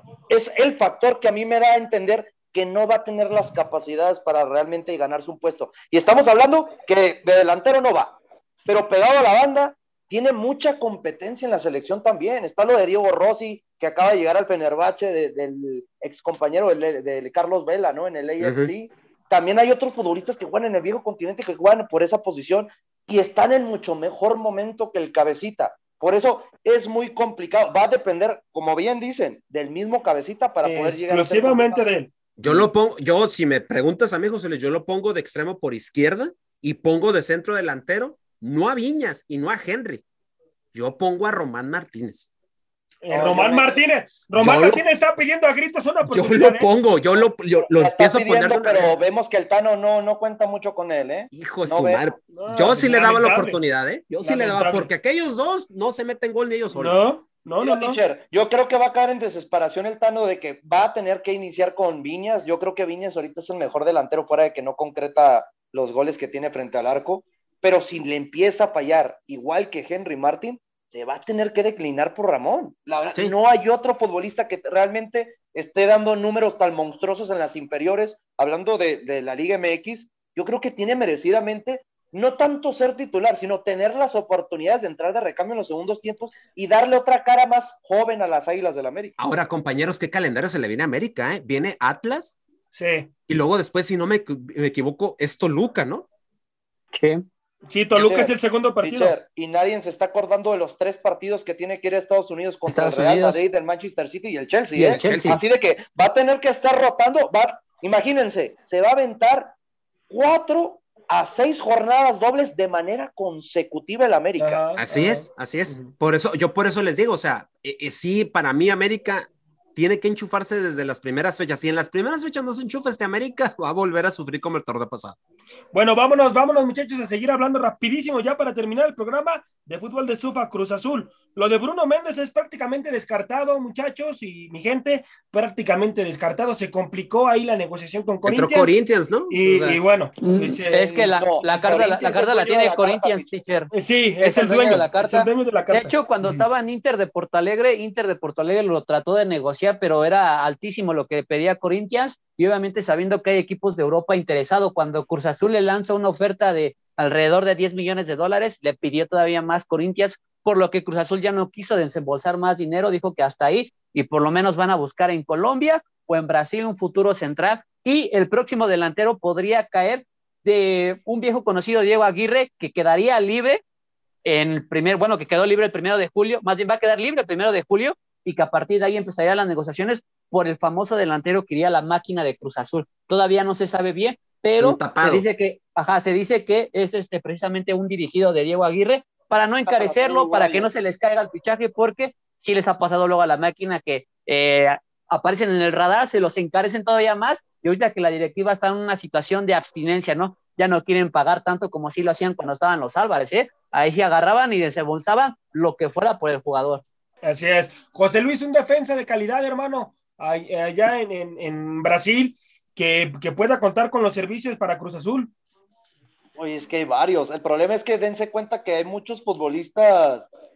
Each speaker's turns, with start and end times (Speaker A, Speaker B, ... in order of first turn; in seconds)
Speaker A: 0.3-31.8, 43.1-43.8, 47.6-52.0, 57.6-89.1, 98.0-98.3, 98.8-109.5, 110.1-114.6, 141.1-143.3, 189.7-190.7, 216.4-220.3
Speaker B: 18.4-18.7, 32.4-40.0, 40.7-42.3, 44.4-44.8, 46.1-49.0, 51.3-57.0, 89.2-92.4, 93.3-96.0, 104.9-105.4, 114.8-125.2, 138.2-139.8, 184.5-185.2
Speaker C: 30.6-32.7, 43.0-46.7, 52.3-53.6, 54.2-54.9, 56.7-58.0, 92.7-93.1, 97.7-99.1, 114.4-115.9, 125.7-138.7, 139.3-141.4, 143.7-146.4, 207.2-215.3
Speaker D: 96.9-97.2, 102.7-103.4, 104.8-105.4, 140.2-173.6, 174.2-206.8